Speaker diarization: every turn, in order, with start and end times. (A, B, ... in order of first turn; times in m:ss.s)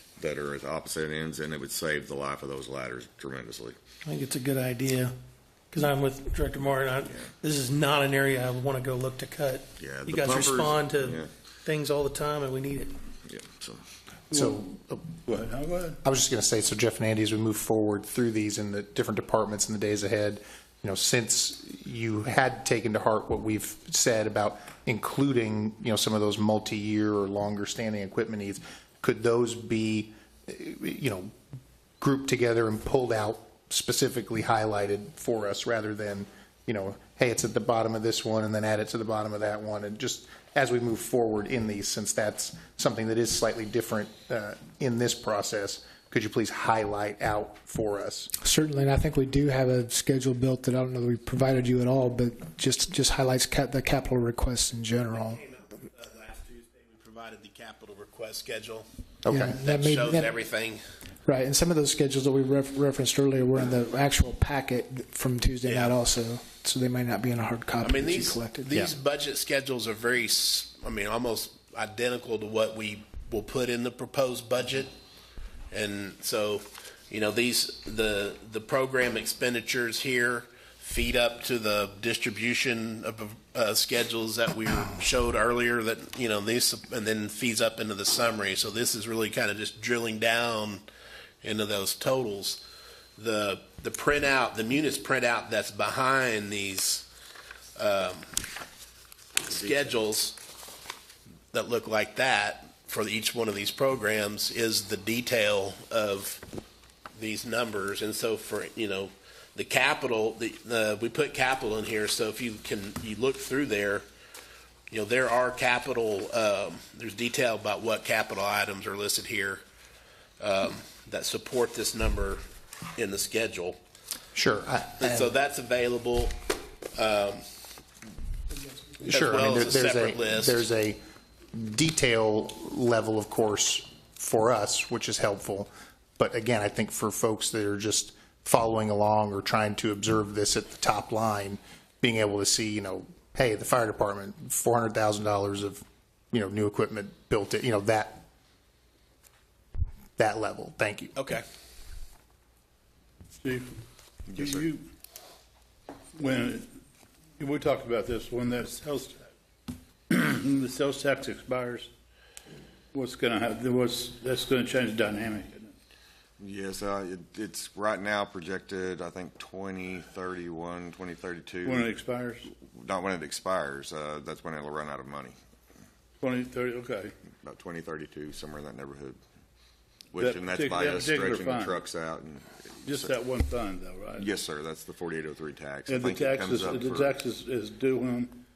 0:00.2-0:03.8 A
0:04.0-0:05.1 B
0:05.7-0:12.9 B
0:09.8-0:11.2 A
0:13.3-0:13.8 A
0:14.3-0:14.6 C
0:14.3-0:15.1 D
0:15.2-0:16.0 C
0:16.0-0:31.3 D
0:32.0-0:48.3 D
0:48.4-0:55.4 E
0:55.1-0:58.9 F
0:59.2-0:59.6 D
0:59.3-1:00.3 E
0:59.6-1:00.8 F
1:01.2-1:08.8 E
1:05.6-1:06.0 F
1:07.8-1:14.9 F
1:15.7-1:30.8 F
1:31.4-1:32.6 F
1:33.2-1:37.0 F
1:37.8-1:38.4 F
1:39.4-1:40.4 F
1:41.5-1:46.4 F
1:47.2-1:54.0 F
1:54.9-1:59.6 F
2:00.4-2:02.4 F
2:02.9-2:03.8 F
2:04.3-2:05.3 D
2:05.0-2:07.4 F
2:09.0-2:10.7 F
2:09.0-2:11.0 D
2:11.5-2:28.2 D
2:30.2-2:31.2 D
2:31.2-2:31.4 F
2:33.4-2:33.7 C
2:34.3-2:34.8 C
2:34.4-2:34.6 A
2:36.1-2:36.7 C
2:37.4-2:39.2 C
2:40.1-2:41.9 C
2:42.9-2:45.7 C
2:46.4-2:51.9 A
2:51.6-2:52.5 C
2:52.6-2:55.4 A
2:56.2-2:57.1 C
2:57.4-2:59.2 A
3:00.1-3:03.1 A
3:00.2-3:01.8 C
3:02.8-3:04.3 C
3:04.2-3:07.2 A
3:05.9-3:08.4 C